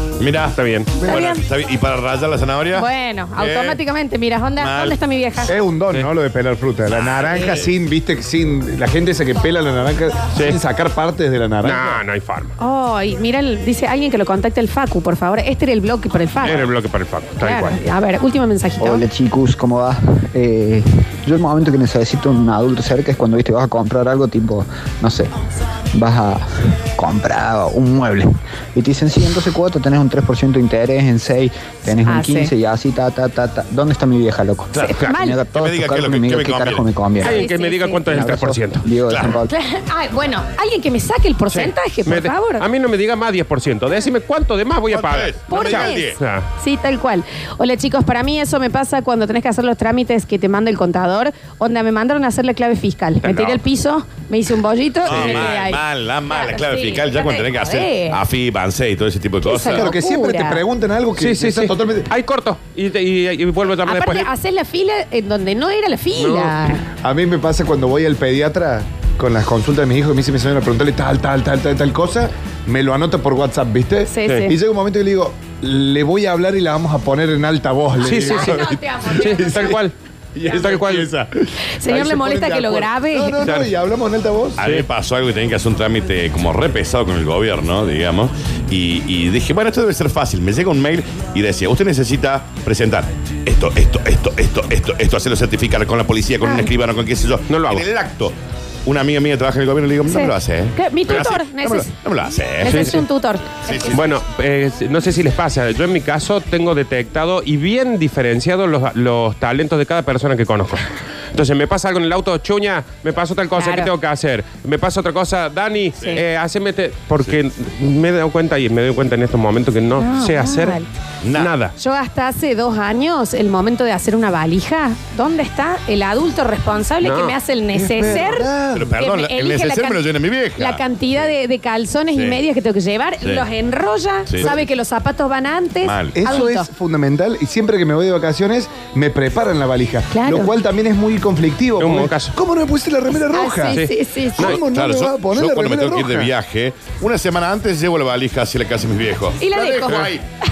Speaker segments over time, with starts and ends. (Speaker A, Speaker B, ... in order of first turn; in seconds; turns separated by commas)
Speaker A: 0.2-3.8, Speaker B: 0.6-0.9, Speaker C: 1.0-1.4, Speaker C: 2.7-5.5, Speaker A: 4.6-5.0, Speaker D: 5.5-12.0, Speaker A: 7.0-7.6, Speaker B: 11.6-12.5, Speaker C: 12.6-16.7, Speaker B: 16.4-17.8, Speaker C: 17.4-19.0, Speaker E: 18.8-25.3, Speaker E: 25.9-37.4, Speaker C: 32.0-32.5, Speaker A: 34.7-35.0, Speaker C: 34.7-35.4, Speaker A: 35.5-36.9, Speaker C: 37.2-38.3, Speaker B: 37.2-38.9, Speaker E: 38.1-39.5, Speaker A: 39.0-39.4, Speaker C: 39.5-42.6, Speaker B: 41.5-46.5, Speaker A: 44.9-46.2, Speaker C: 45.5-58.2, Speaker B: 53.2-53.6, Speaker A: 55.0-59.9, Speaker B: 55.0-55.4, Speaker C: 59.4-60.6, Speaker D: 59.7-62.1, Speaker B: 61.2-64.3, Speaker C: 63.8-66.8, Speaker B: 66.2-66.8, Speaker D: 67.0-78.7, Speaker C: 74.1-74.5, Speaker B: 78.0-79.9, Speaker C: 78.2-79.8, Speaker D: 79.3-79.8, Speaker D: 80.3-84.6, Speaker B: 80.5-81.1, Speaker C: 81.7-83.4, Speaker B: 83.4-83.7, Speaker A: 84.6-98.3, Speaker B: 84.6-84.9, Speaker C: 96.4-96.7, Speaker B: 97.5-97.8, Speaker A: 98.8-103.0, Speaker C: 100.0-101.9, Speaker C: 102.6-104.0, Speaker B: 102.7-103.0, Speaker A: 103.7-104.1, Speaker B: 103.9-120.8, Speaker C: 113.5-113.9, Speaker C: 120.0-120.9, Speaker A: 121.2-121.5, Speaker B: 121.3-121.7, Speaker C: 121.8-130.0, Speaker B: 127.0-127.3, Speaker D: 127.7-129.0, Speaker A: 128.7-130.8, Speaker C: 130.6-136.7, Speaker A: 132.1-132.4, Speaker A: 133.2-133.4, Speaker A: 134.3-134.6, Speaker A: 135.8-136.2, Speaker D: 136.1-143.8, Speaker C: 140.1-140.5, Speaker B: 141.8-142.3, Speaker C: 143.3-144.6, Speaker B: 143.6-144.6, Speaker D: 144.4-146.3, Speaker A: 144.4-150.2, Speaker C: 149.4-150.1